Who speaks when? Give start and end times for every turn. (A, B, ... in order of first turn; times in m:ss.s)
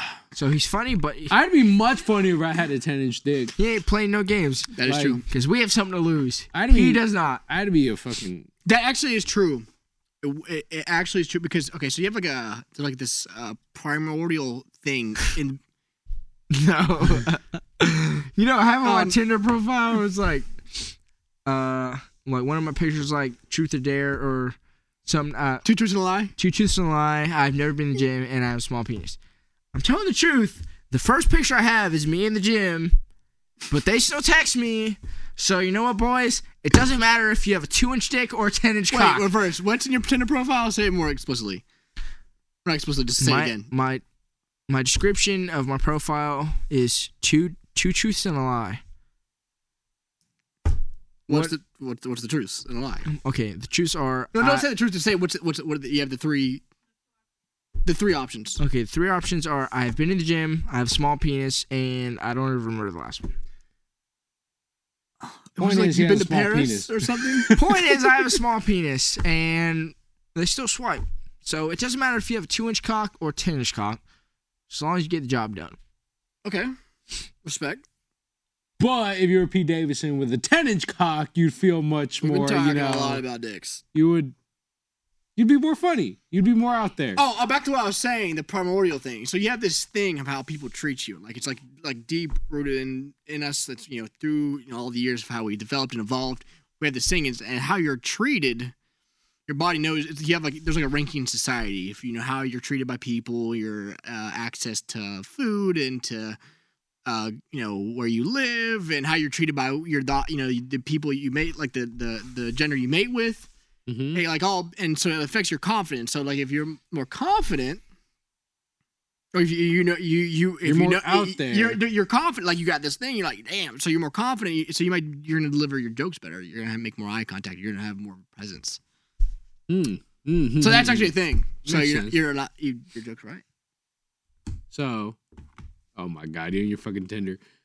0:00.3-0:01.3 A
0:01.3-0:03.5 B
0:03.6-0:07.4 A
0:04.7-0:05.2 C
0:04.8-0:05.2 B
0:06.5-0:08.5 B
0:08.6-0:09.6 C
0:10.2-0:15.6 C
0:16.5-0:20.9 A
0:18.8-0:19.2 C
0:21.4-0:25.6 A
0:25.6-0:26.3 C
0:26.4-0:29.2 A
0:29.7-0:33.0 A
0:33.7-0:39.3 A
0:38.9-0:41.6 C
0:42.6-0:43.7 C
0:43.2-0:44.0 A
0:44.7-0:48.8 A
0:51.3-0:53.1 C
0:53.1-0:54.7 A
0:54.3-0:56.6 C
0:57.8-0:58.6 C
0:58.6-1:03.3 A
1:05.2-1:07.5 C
1:05.6-1:08.2 B
1:07.5-1:14.0 A
1:14.7-1:15.8 A
1:16.4-1:16.7 C
1:17.4-1:17.8 C
1:18.8-1:23.2 B
1:22.2-1:23.8 C
1:23.9-1:24.3 B
1:25.4-1:27.2 B
1:27.2-1:38.7 C
1:39.5-1:46.4 C
1:47.0-1:53.5 C
1:53.9-1:54.2 B
1:54.1-1:57.8 C
1:59.3-2:08.8 C
2:00.6-2:01.8 B
2:09.7-2:11.1 B
2:10.6-2:13.4 C
2:11.6-2:12.2 B
2:14.7-2:15.2 B
2:16.0-2:17.4 B